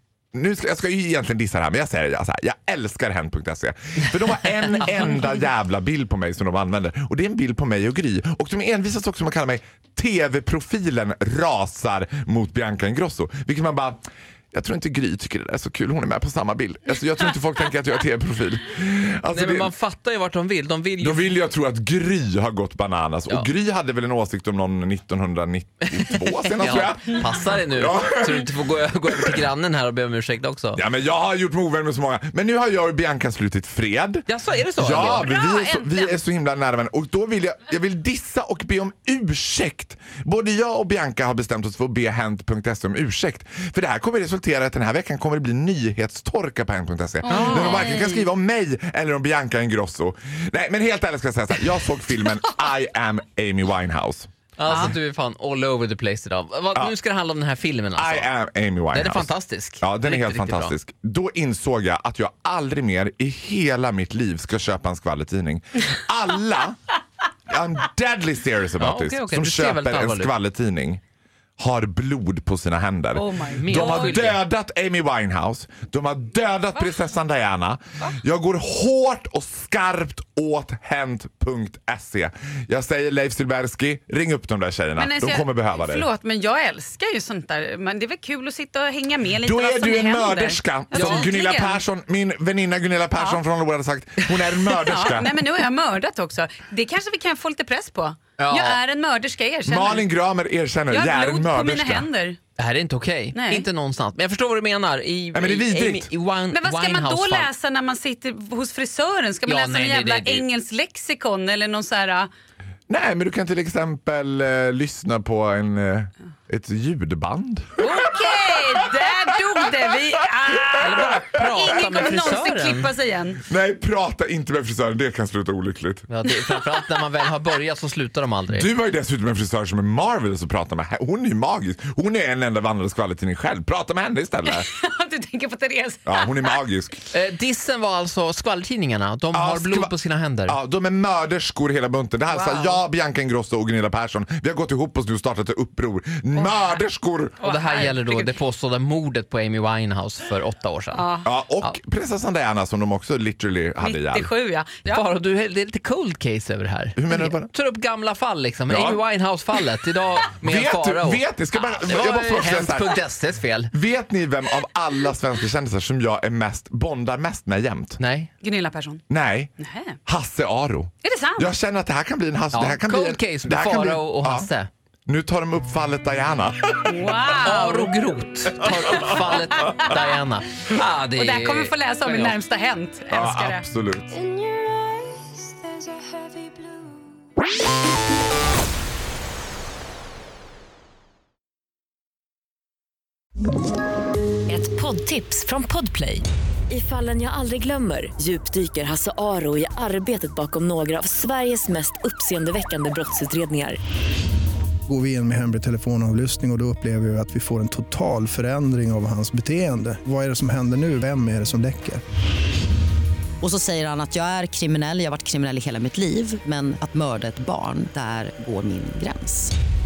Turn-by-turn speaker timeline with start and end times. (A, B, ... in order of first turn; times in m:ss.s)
0:00.3-0:19.7 A
0:19.3-0:21.3 B
0:21.0-0:28.5 A
0:26.0-0:30.8 B
0:29.1-0:29.4 A
0:30.8-0:54.9 A
0:34.3-0:35.3 B
0:35.1-0:36.2 C
0:47.3-0:47.9 B
0:47.3-0:48.2 C
0:54.6-0:58.3 B
0:54.6-0:54.9 C
0:58.0-1:06.8 A
0:58.9-1:00.7 B
1:07.5-1:11.0 A
1:08.8-1:10.3 B
1:11.6-1:26.1 A
1:13.1-1:14.3 C
1:13.5-1:14.4 B
1:25.0-1:31.8 C
1:29.4-1:35.4 A
1:30.9-1:31.3 B
1:33.1-1:33.4 C
1:34.8-1:40.1 C
1:38.4-1:38.8 B
1:39.6-1:42.1 A
1:40.9-1:42.4 C
1:42.6-1:47.5 B
1:43.3-1:43.7 C
1:45.3-1:46.1 A
1:46.5-1:52.3 C
1:49.4-1:50.4 B
1:52.9-1:59.1 A
1:57.8-2:03.4 C
2:00.6-2:02.4 A
2:00.8-2:02.9 B
2:03.4-2:06.1 A
2:06.1-2:08.7 B
2:08.5-2:14.7 A
2:14.5-2:16.6 C
2:16.0-2:17.0 A
2:17.1-2:20.6 B
2:19.3-2:19.9 A
2:20.4-2:27.4 A
2:22.3-2:22.8 C
2:26.3-2:26.8 C
2:27.4-2:28.3 C
2:27.4-2:31.1 B
2:30.9-2:31.3 C
2:31.2-2:34.3 A
2:33.8-2:35.0 C
2:34.8-2:43.7 B
2:37.0-2:37.5 A
2:38.7-2:39.0 A
2:40.4-2:43.0 A
2:43.7-2:48.0 A
2:48.0-2:48.3 B
2:48.4-2:49.0 C
2:49.1-2:49.5 A
2:49.6-2:50.0 C
2:50.0-2:54.5 A
2:51.0-2:51.5 C
2:52.5-2:54.7 B
2:55.1-2:57.1 A
2:56.8-2:57.9 C
2:57.4-3:02.4 B
2:58.8-2:59.7 A
2:59.3-3:00.1 C
3:01.2-3:03.6 C
3:03.1-3:04.1 A
3:04.1-3:07.1 D
3:14.5-3:23.8 E
3:24.9-3:32.0 F
3:33.4-3:39.5 G